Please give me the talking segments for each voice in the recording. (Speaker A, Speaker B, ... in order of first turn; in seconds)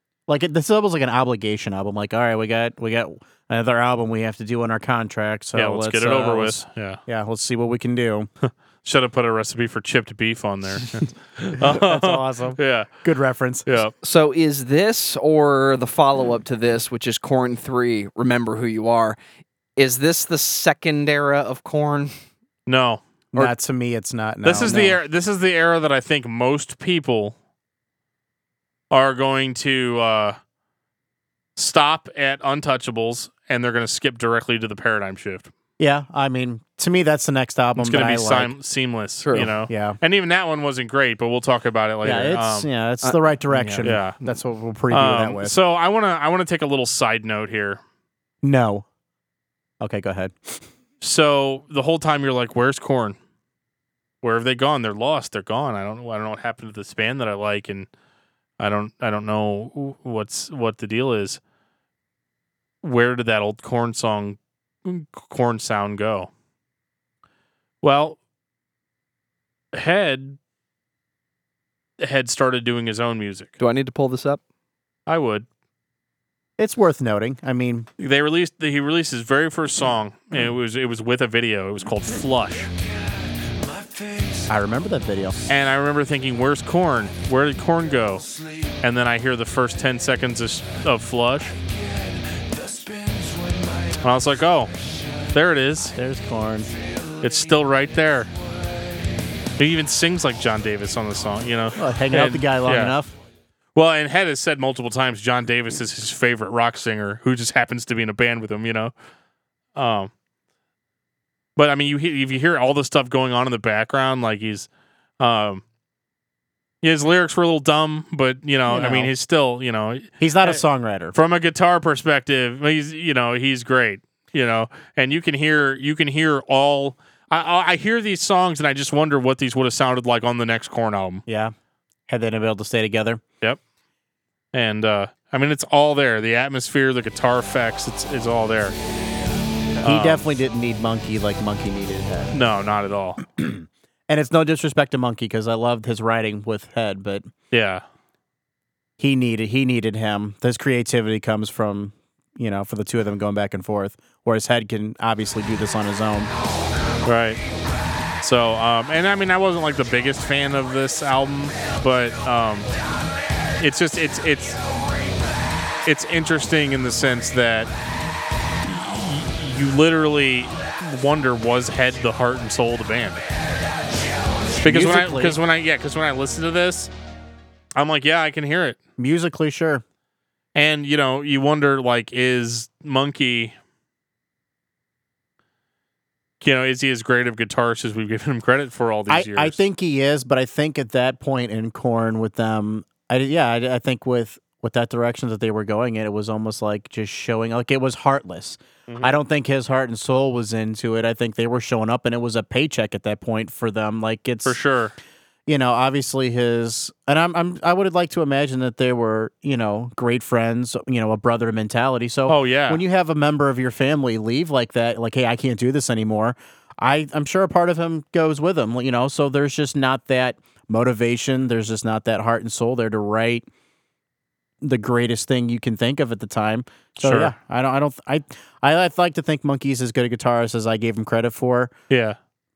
Speaker A: 0.3-8.3, 11.6-13.8, 23.3-25.0, 35.8-38.5, 39.3-40.0, 42.0-45.6, 48.4-48.9, 49.8-50.6, 76.6-77.9, 84.5-85.4, 96.0-96.7, 101.8-103.1, 118.7-119.1, 120.2-121.1, 131.3-131.5, 132.1-133.2, 139.8-142.3, 143.2-147.3, 149.0-156.3, 174.6-175.4, 179.0-179.8, 189.1-204.6, 205.5-223.4, 224.6-231.7
Speaker B: 5.6-7.0, 8.4-12.9, 13.7-13.9, 22.7-23.0, 24.4-27.4, 28.9-30.4, 31.6-35.5, 37.8-42.7, 43.5-44.2, 44.9-47.8, 51.0-53.2, 54.2-57.9, 58.6-61.4, 62.8-66.3, 67.8-68.2, 69.7-70.4, 72.0-73.5, 75.1-75.5, 78.0-82.7, 85.5-88.3, 88.8-91.6, 94.0-94.7, 95.3-96.0, 97.2-98.3, 99.6-103.0, 103.8-108.9, 109.8-110.1, 111.6-114.7, 115.2-115.6, 116.8-120.6, 121.1-131.2, 134.5-138.8, 139.8-140.3, 142.3-143.2, 147.5-147.8, 157.1-157.4, 158.2-162.7, 163.6-164.6, 165.9-167.7, 168.6-173.2, 174.6-176.9, 177.8-178.8, 180.6-183.5, 186.4-189.6, 198.9-199.1, 204.4-204.9, 212.3-212.8, 227.0-227.3, 231.9-232.2
Speaker C: 14.0-19.2, 19.8-22.1, 39.2-39.5, 73.6-74.4